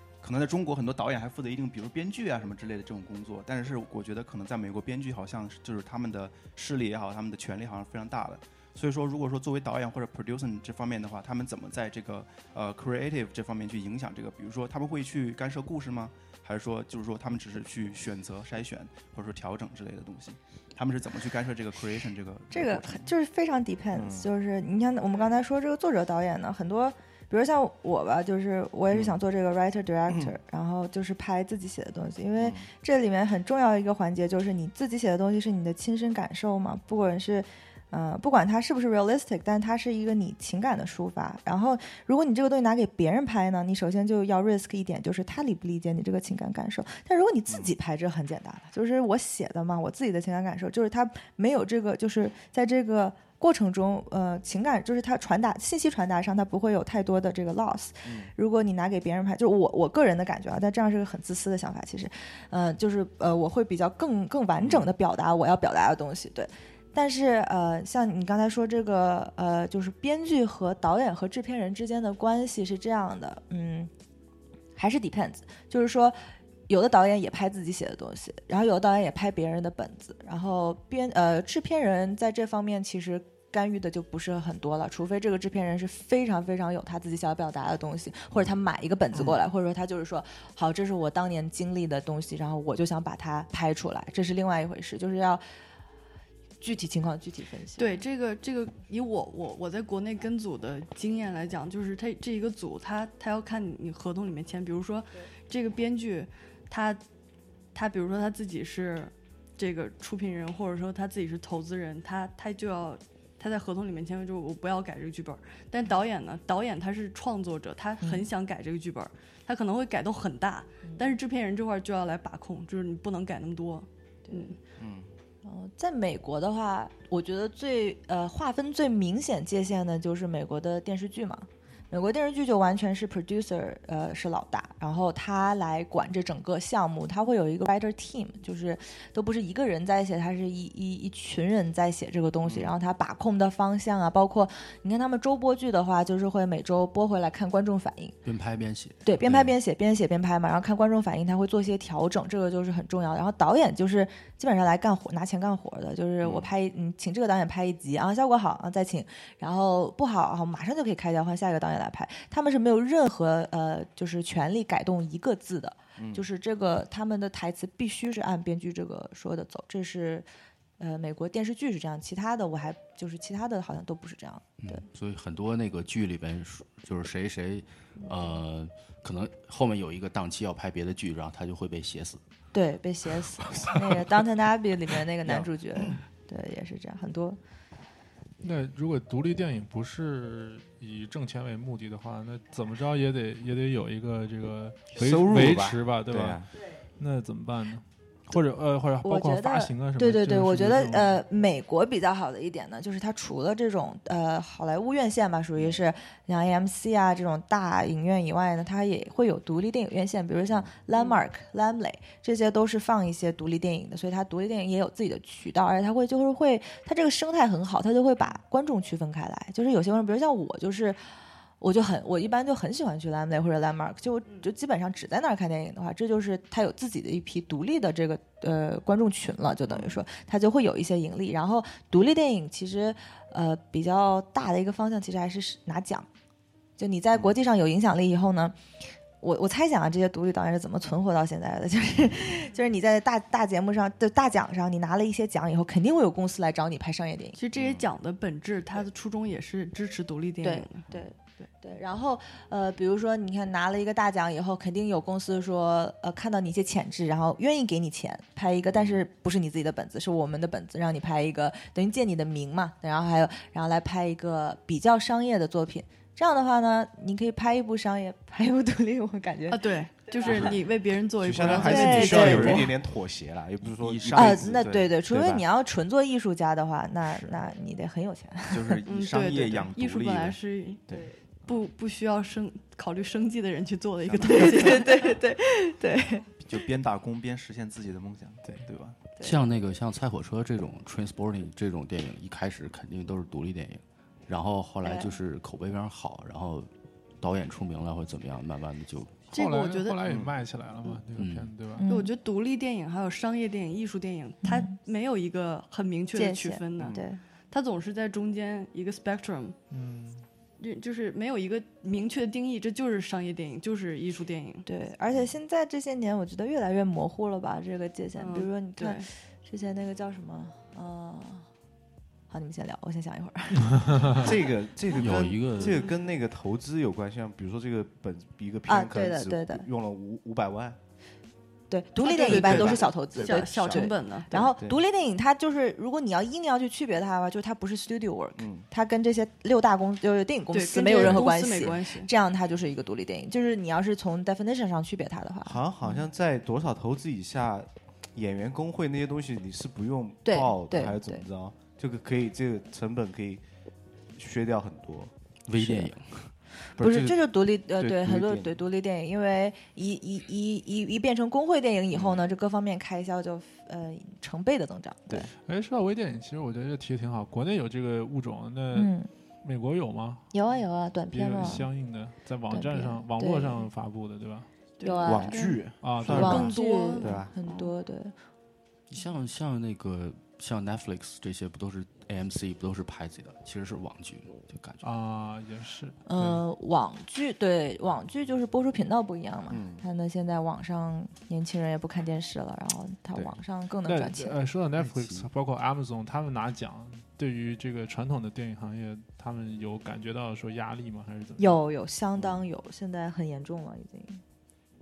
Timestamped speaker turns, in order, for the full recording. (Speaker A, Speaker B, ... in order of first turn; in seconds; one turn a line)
Speaker A: 0.2-23.1
Speaker B: 22.5-73.9
Speaker C: 23.9-24.3
Speaker C: 28.9-29.2
Speaker C: 30.1-30.4
Speaker C: 32.4-32.7
Speaker C: 47.5-47.7
Speaker C: 58.0-58.3
Speaker C: 64.6-64.9
Speaker B: 74.8-95.4
Speaker B: 96.6-98.0
Speaker D: 97.8-107.0
Speaker D: 107.7-124.6
Speaker B: 118.0-118.3
Speaker C: 124.8-125.1
Speaker B: 125.4-148.2
Speaker C: 142.4-142.7
Speaker E: 148.2-149.5
Speaker B: 149.0-170.3
Speaker C: 156.2-156.5
Speaker C: 166.0-166.2
Speaker B: 170.8-174.8
Speaker E: 174.6-182.2
Speaker B: 182.5-187.4
Speaker C: 183.5-184.0
Speaker C: 185.2-186.0
Speaker F: 188.4-196.4
Speaker C: 194.9-196.5
Speaker F: 197.0-201.2
Speaker B: 199.0-221.0
Speaker B: 221.6-236.1
Speaker C: 229.7-230.0
Speaker B: 236.8-238.6
Speaker B: 239.2-247.4
Speaker D: 247.3-250.9
Speaker C: 247.6-247.9
Speaker B: 250.4-270.5
Speaker C: 258.7-259.0
Speaker D: 269.5-272.7
Speaker C: 270.2-270.6
Speaker C: 271.2-275.4
Speaker B: 271.6-272.7
Speaker E: 273.8-274.6
Speaker B: 274.1-278.8
Speaker A: 278.5-280.4
Speaker D: 278.9-280.8
Speaker D: 281.4-285.2
Speaker B: 284.3-286.3
Speaker A: 286.4-289.0
Speaker E: 289.2-296.7
Speaker B: 294.8-295.1
Speaker E: 297.2-299.3
Speaker D: 299.3-300.0
Speaker F: 299.3-301.9
Speaker C: 300.0-300.3
Speaker E: 301.1-301.5
Speaker B: 301.8-302.1
Speaker D: 301.9-309.6
Speaker B: 304.4-304.7
Speaker B: 306.1-307.2
Speaker C: 306.8-307.0
Speaker F: 309.7-310.2
Speaker D: 310.6-314.6
Speaker B: 314.6-321.5
Speaker D: 318.2-319.1
Speaker B: 322.3-324.2
Speaker F: 323.7-324.2
Speaker C: 324.1-330.8
Speaker E: 324.9-325.9
Speaker D: 325.6-325.9
Speaker B: 328.7-329.6
Speaker B: 331.7-346.0
Speaker D: 332.0-334.5
Speaker C: 332.2-333.9
Speaker C: 338.4-338.6
Speaker D: 340.5-342.1
Speaker C: 341.0-341.2
Speaker C: 345.4-353.4
Speaker B: 350.2-351.2
Speaker C: 354.1-355.1
Speaker E: 355.5-356.3
Speaker B: 355.6-355.9
Speaker B: 356.7-365.3
Speaker C: 356.8-357.2
Speaker C: 357.8-358.5
Speaker C: 361.9-362.2
Speaker F: 365.4-370.3
Speaker B: 368.7-369.1
Speaker B: 370.3-371.7
Speaker F: 371.1-374.5
Speaker B: 372.5-373.6
Speaker D: 374.8-377.7
Speaker B: 374.8-375.5
Speaker C: 375.0-377.3
Speaker F: 375.8-376.5
Speaker B: 376.1-378.1
Speaker E: 378.9-384.9
Speaker F: 384.8-386.4
Speaker B: 386.1-394.4
Speaker C: 389.5-389.8
Speaker F: 393.9-401.6
Speaker E: 394.8-395.3
Speaker B: 401.4-404.2
Speaker C: 402.2-402.4